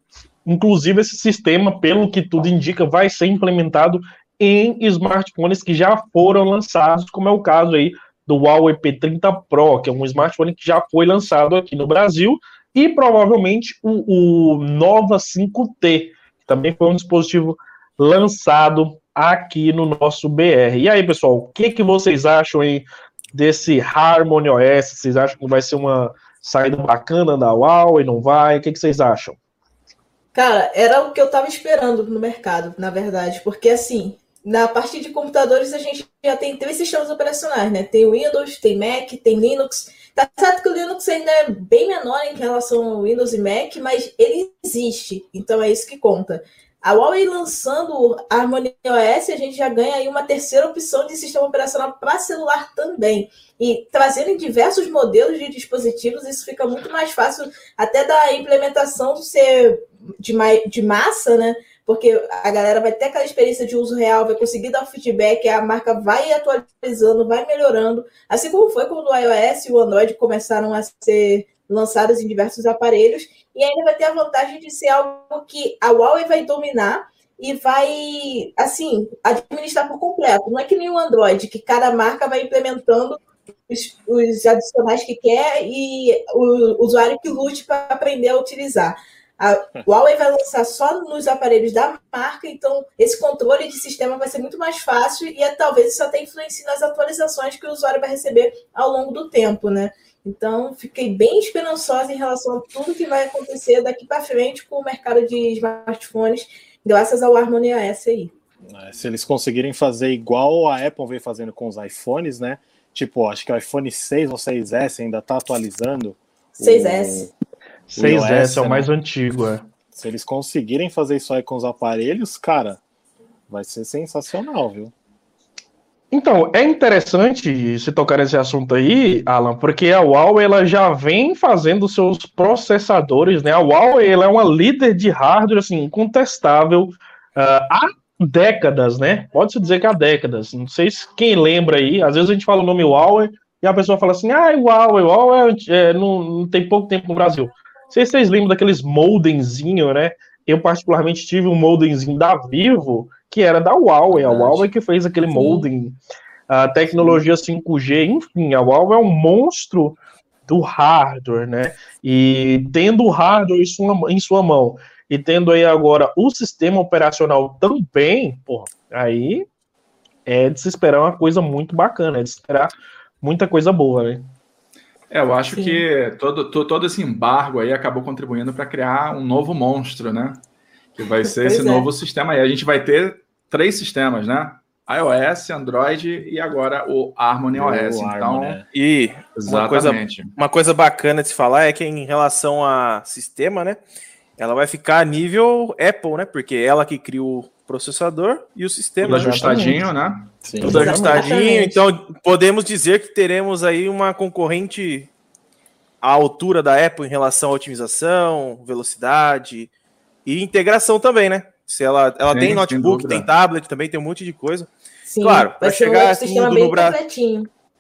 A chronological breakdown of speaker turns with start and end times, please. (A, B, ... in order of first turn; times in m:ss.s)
0:00.4-0:29.4 A
0:30.3-1:48.3 B
1:48.7-1:57.3 C
1:56.6-1:57.3 B
1:57.9-1:59.6 A
1:58.0-1:58.9 C
1:59.9-2:02.8 C
2:03.5-2:04.9 C
2:06.1-2:36.0 A
2:34.1-2:34.7 C
2:35.3-2:35.7 B
2:36.5-2:49.4 A
2:36.9-2:37.2 C
2:50.3-2:54.3 A
2:55.1-3:00.4 D
2:55.5-2:55.8 B
3:01.0-3:08.6 D
3:01.3-3:01.9 B
3:07.5-3:08.6 C
3:08.7-3:13.8 E
3:09.4-3:10.3 D
3:14.4-3:19.3 E
3:19.0-3:19.9 A
3:19.0-3:19.5 C
3:19.0-3:20.3 D
3:20.4-3:20.8 C
3:20.6-3:21.3 A
3:20.6-3:25.1 E
3:20.7-3:21.8 B
3:26.0-3:29.7 E
3:30.3-3:34.7 E
3:32.3-3:33.3 D
3:35.1-3:37.5 B
3:35.2-3:37.0 E